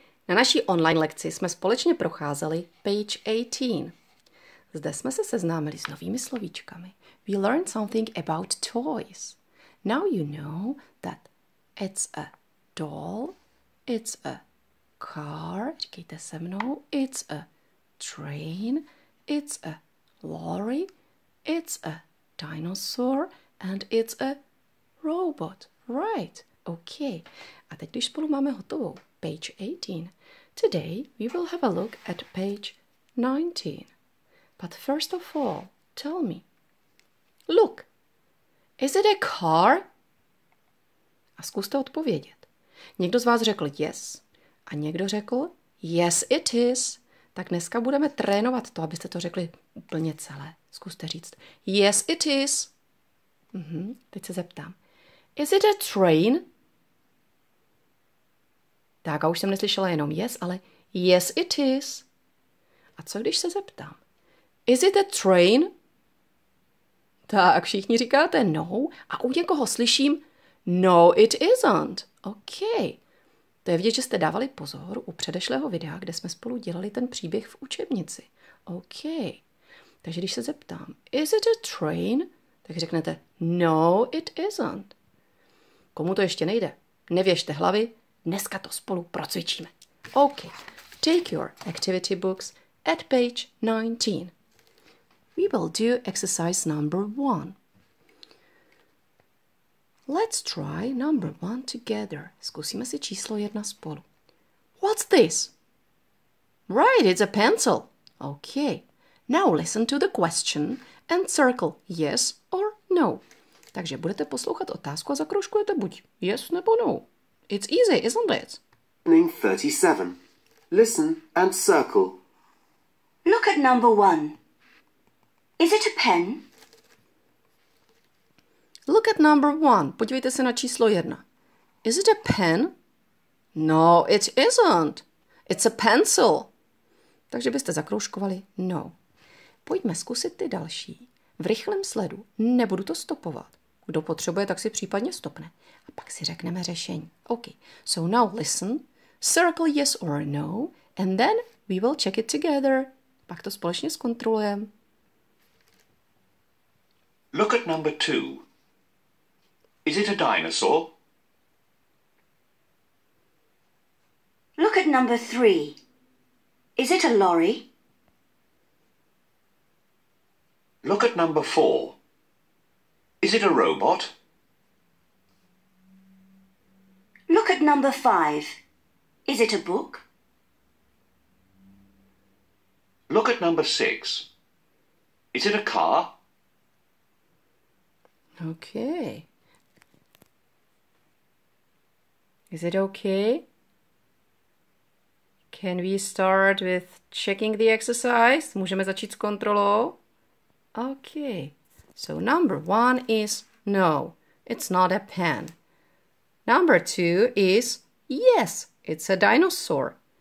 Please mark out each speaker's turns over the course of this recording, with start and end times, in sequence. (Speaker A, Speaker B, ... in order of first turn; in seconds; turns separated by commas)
Speaker A: 0.3-3.9, Speaker A: 4.7-13.4, Speaker A: 13.9-14.4, Speaker A: 15.0-17.5, Speaker A: 18.0-20.9, Speaker A: 21.5-24.4, Speaker A: 25.0-33.9, Speaker A: 34.6-36.5, Speaker A: 37.5-37.9, Speaker A: 38.8-39.9, Speaker A: 41.4-42.5, Speaker A: 43.0-52.7, Speaker A: 53.5-54.8, Speaker A: 55.4-56.5, Speaker A: 59.0-62.1, Speaker A: 63.0-64.0, Speaker A: 64.7-65.7, Speaker A: 67.3-73.0, Speaker A: 73.7-79.4, Speaker A: 80.0-84.9, Speaker A: 86.0-94.3, Speaker A: 95.4-97.6, Speaker A: 100.1-104.0, Speaker A: 104.8-105.5, Speaker A: 106.7-113.2, Speaker A: 113.7-118.6, Speaker B: 119.1-120.2, Speaker B: 120.7-122.2, Speaker C: 123.2-124.4, Speaker C: 125.6-126.5, Speaker A: 128.9-131.2, Speaker A: 131.8-132.7, Speaker A: 133.6-136.5, Speaker A: 137.3-138.9, Speaker A: 139.7-154.7, Speaker D: 157.3-158.4, Speaker D: 159.8-160.9, Speaker C: 164.6-165.8, Speaker C: 166.8-167.7, Speaker D: 170.8-172.0, Speaker D: 173.2-174.2, Speaker C: 177.3-178.6, Speaker C: 179.3-180.0, Speaker D: 183.1-184.3, Speaker D: 185.3-186.2, Speaker A: 188.4-189.3, Speaker A: 192.5-193.4, Speaker A: 195.5-200.0, Speaker A: 200.8-205.6, Speaker A: 206.5-210.0